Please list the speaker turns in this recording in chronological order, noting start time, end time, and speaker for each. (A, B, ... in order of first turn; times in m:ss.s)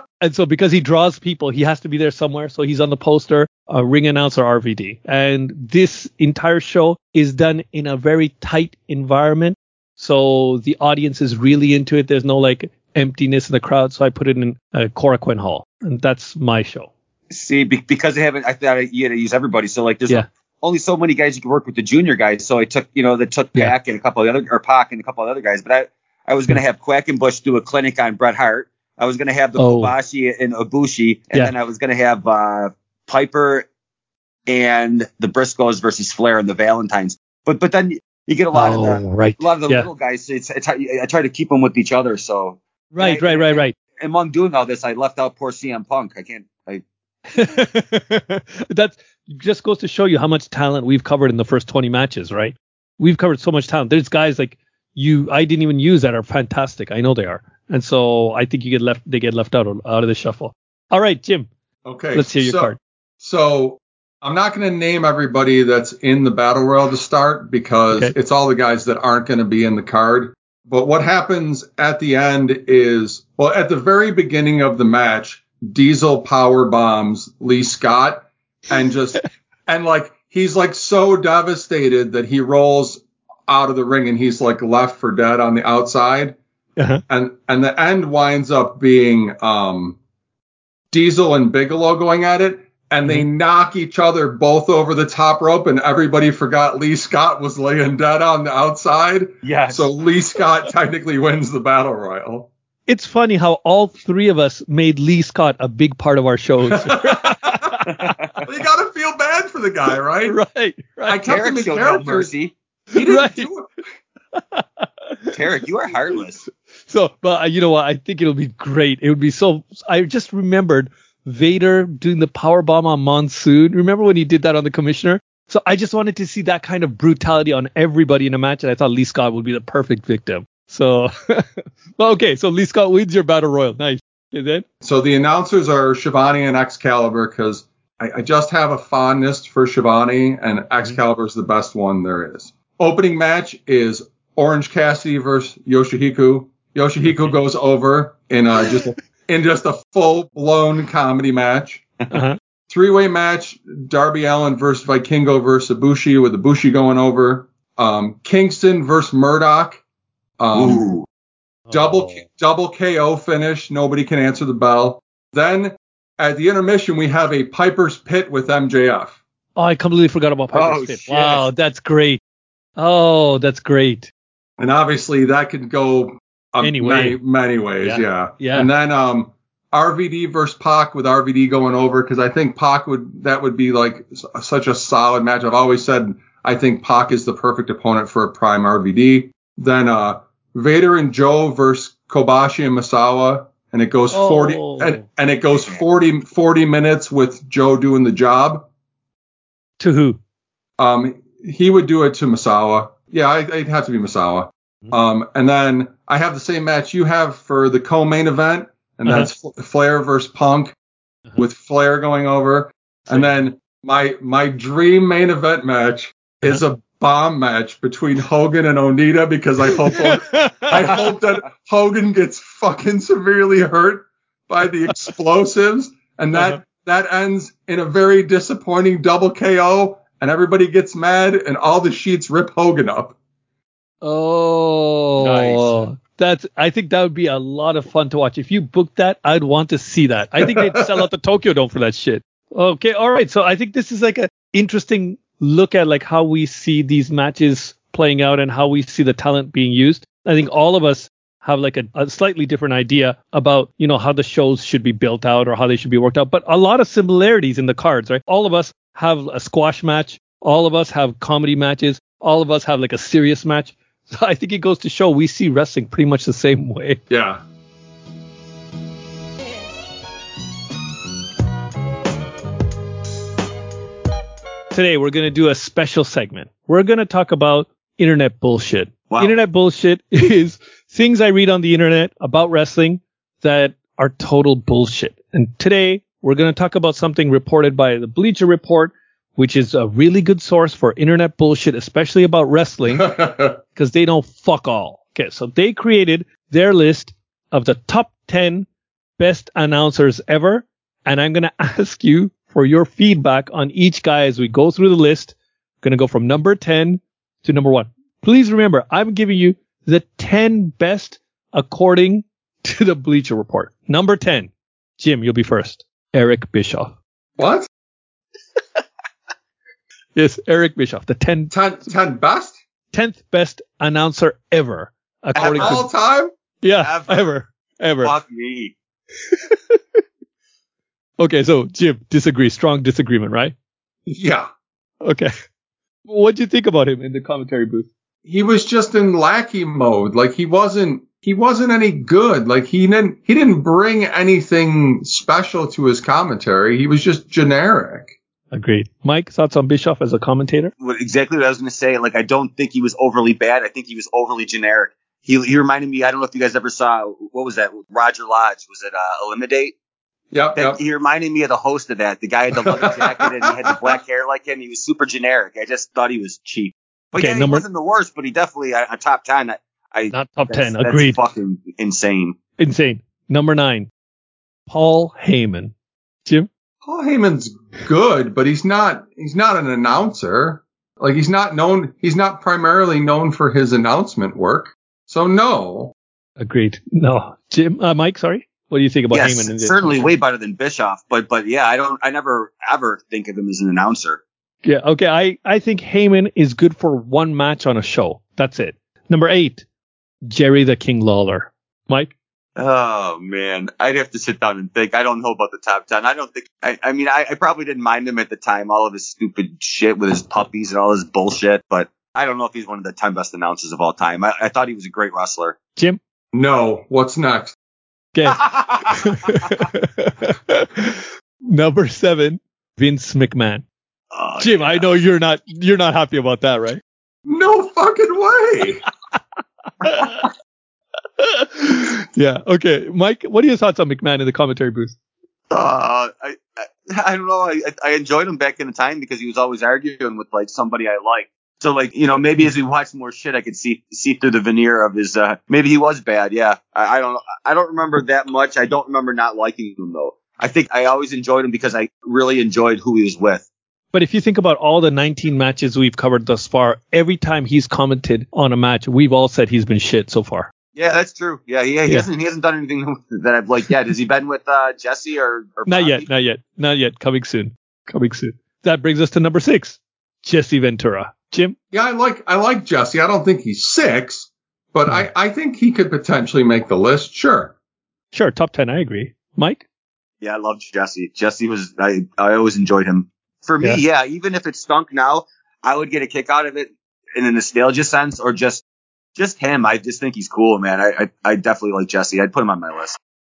0:00.2-0:16.9 A
0:17.3-0:33.7 B
0:29.6-0:29.9 A
0:34.5-0:46.8 B
0:38.5-0:39.9 A
0:42.9-0:43.8 A
0:47.3-1:01.5 A
1:01.8-1:26.4 C
1:02.1-1:02.8 A
1:26.8-1:27.0 A
1:27.1-1:30.0 C
1:30.9-1:42.5 C
1:39.4-1:39.9 B
1:42.9-1:48.2 A
1:46.8-1:47.6 C
1:47.9-1:48.3 B
1:48.4-1:50.4 C
1:50.3-1:51.4 A
1:51.1-1:52.3 C
1:51.2-1:52.5 B
1:52.9-1:53.5 A
1:52.9-1:53.7 C
1:54.4-1:55.3 A
1:55.3-1:56.4 B
1:56.9-2:14.6 A
2:14.8-2:31.9 C
2:32.1-2:32.4 A
2:32.7-2:39.8 C
2:40.4-2:40.8 C
2:40.5-2:41.1 B
2:41.7-2:42.2 A
2:41.7-2:49.2 C
2:49.6-2:52.2 A
2:50.5-2:51.5 B
2:52.8-2:54.1 A
2:54.6-3:18.6 C
2:56.6-2:57.2 A
2:57.8-2:58.7 A
3:14.1-3:15.0 A
3:15.5-3:15.8 B
3:19.8-3:20.2 A
3:20.8-3:30.8 C
3:31.4-3:53.2 C
3:39.8-3:40.9 A
3:54.0-4:27.0 A
3:55.2-3:55.7 C
4:00.4-4:00.7 C
4:27.1-4:27.4 C
4:34.7-4:58.7 A
4:39.1-4:39.4 B
4:53.0-4:53.5 C
4:59.2-5:17.0 A
5:17.4-5:17.7 C
5:20.2-5:21.5 A
5:21.5-5:22.6 C
5:22.9-5:25.8 A
5:25.4-5:25.8 B
5:25.4-5:26.3 C
5:26.6-5:28.1 A
5:26.8-5:27.3 B
5:28.0-5:28.8 B
5:29.3-5:30.0 A
5:31.2-5:33.5 A
5:34.1-5:34.5 C
5:35.0-5:35.3 A
5:36.1-5:37.9 A
5:38.2-5:48.1 C
5:48.5-5:50.7 A
5:50.8-5:59.8 B
6:00.3-6:00.8 C
6:00.6-6:12.4 B
6:02.6-6:04.0 C
6:07.2-6:07.6 A
6:10.1-6:11.2 A
6:12.6-6:13.9 A
6:14.7-6:15.7 A
6:16.8-6:25.9 C
6:26.4-6:30.1 A
6:29.1-6:34.2 B
6:34.6-6:39.6 A
6:40.3-6:42.1 A
6:42.6-6:55.6 B
6:56.3-6:57.6 C
6:58.1-7:03.6 A
6:58.4-6:58.8 B
7:04.1-7:04.9 B
7:04.4-7:06.8 A
7:07.3-7:08.8 C
7:09.8-7:10.3 A
7:11.2-7:15.0 A
7:15.5-7:33.5 B
7:33.9-7:40.5 A
7:40.8-7:46.1 B
7:45.7-7:51.6 A
7:51.7-7:57.5 C
7:58.1-7:59.6 A
8:00.2-8:08.6 B
8:09.2-8:13.0 B